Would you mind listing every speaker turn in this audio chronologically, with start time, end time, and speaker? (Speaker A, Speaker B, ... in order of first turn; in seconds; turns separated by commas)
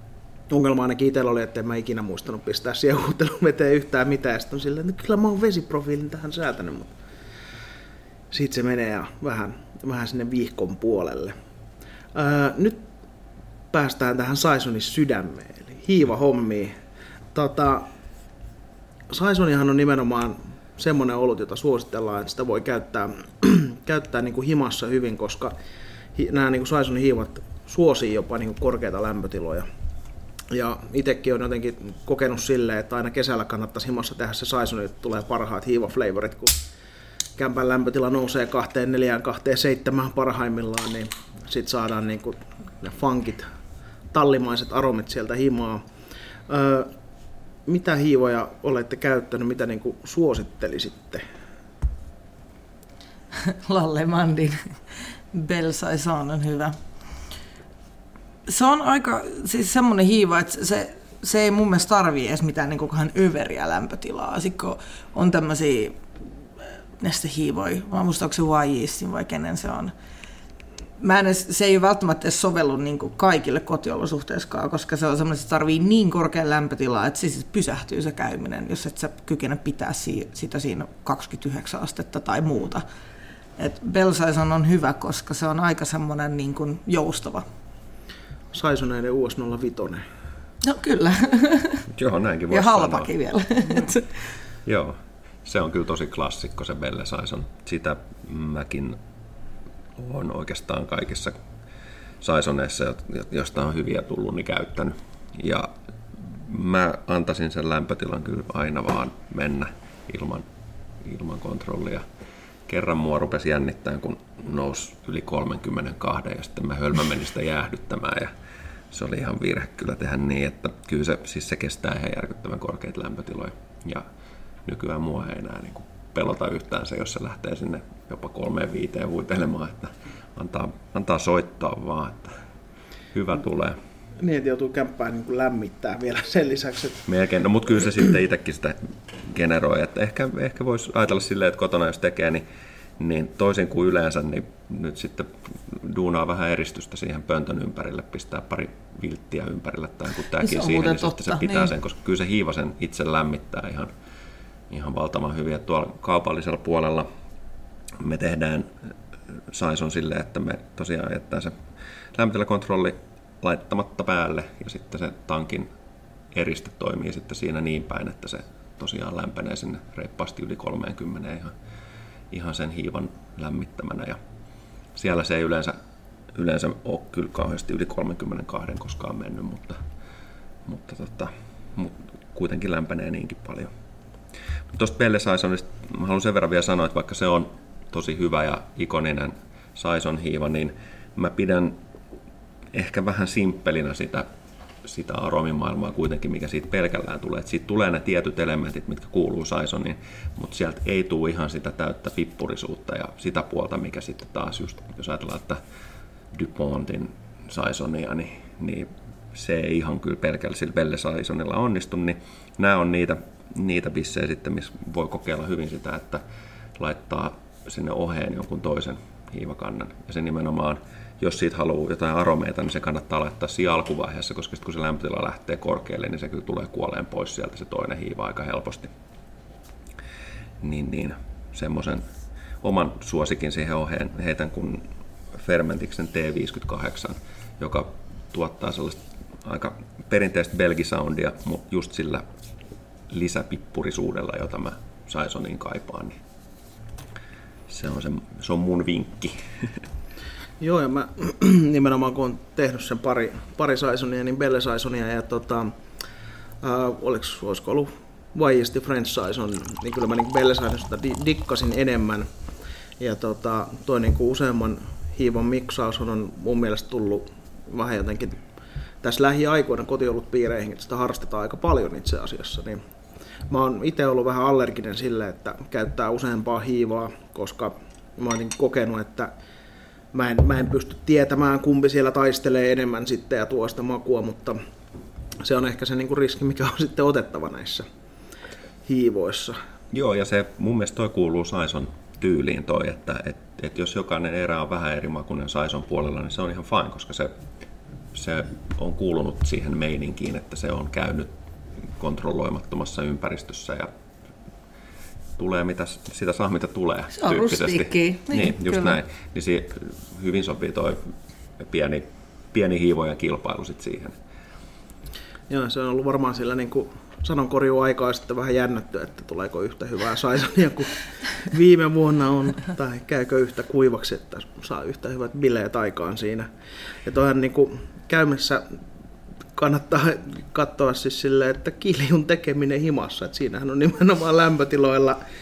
Speaker A: 0.5-6.9, Speaker A: 8.3-11.3, Speaker A: 12.1-12.8, Speaker A: 13.7-16.8, Speaker A: 17.3-17.9, Speaker A: 19.1-25.5, Speaker A: 26.1-29.6, Speaker A: 30.5-36.6, Speaker A: 37.4-43.5, Speaker A: 44.1-45.9, Speaker A: 46.5-46.9, Speaker A: 47.7-51.2, Speaker B: 53.3-56.8, Speaker B: 58.5-66.0, Speaker B: 66.6-69.9, Speaker B: 71.0-82.8, Speaker B: 83.6-87.5, Speaker A: 88.5-90.0, Speaker B: 90.6-91.9, Speaker C: 91.9-93.1, Speaker B: 92.5-94.4, Speaker C: 94.6-99.0, Speaker C: 100.0-101.3, Speaker C: 102.2-110.5, Speaker C: 111.0-112.0, Speaker C: 112.7-118.3, Speaker C: 118.9-124.0, Speaker C: 124.6-132.4, Speaker C: 133.1-133.8, Speaker A: 134.2-137.1, Speaker C: 137.1-142.4, Speaker C: 143.0-153.9, Speaker B: 150.4-151.7, Speaker C: 154.7-157.1, Speaker C: 158.0-158.7, Speaker C: 159.5-161.5, Speaker C: 162.1-165.7, Speaker C: 166.3-171.5, Speaker C: 172.3-174.2, Speaker C: 174.9-175.7, Speaker C: 176.3-179.8, Speaker C: 180.6-183.7, Speaker C: 184.7-191.8, Speaker C: 192.7-194.3, Speaker C: 194.8-205.6, Speaker C: 206.3-216.2, Speaker C: 216.8-228.9, Speaker C: 230.6-232.0, Speaker C: 232.6-242.2, Speaker C: 243.1-246.2, Speaker C: 247.7-249.8, Speaker A: 250.6-255.8, Speaker A: 256.6-262.3, Speaker A: 263.0-268.4, Speaker A: 269.0-272.8, Speaker A: 273.5-279.3, Speaker A: 280.1-284.6, Speaker A: 285.4-287.9, Speaker A: 288.9-289.6, Speaker C: 289.9-297.3, Speaker C: 298.1-301.3, Speaker C: 302.0-303.9, Speaker C: 305.4-314.1, Speaker B: 307.1-309.0, Speaker A: 315.5-326.5, Speaker A: 327.0-328.8, Speaker A: 329.6-335.2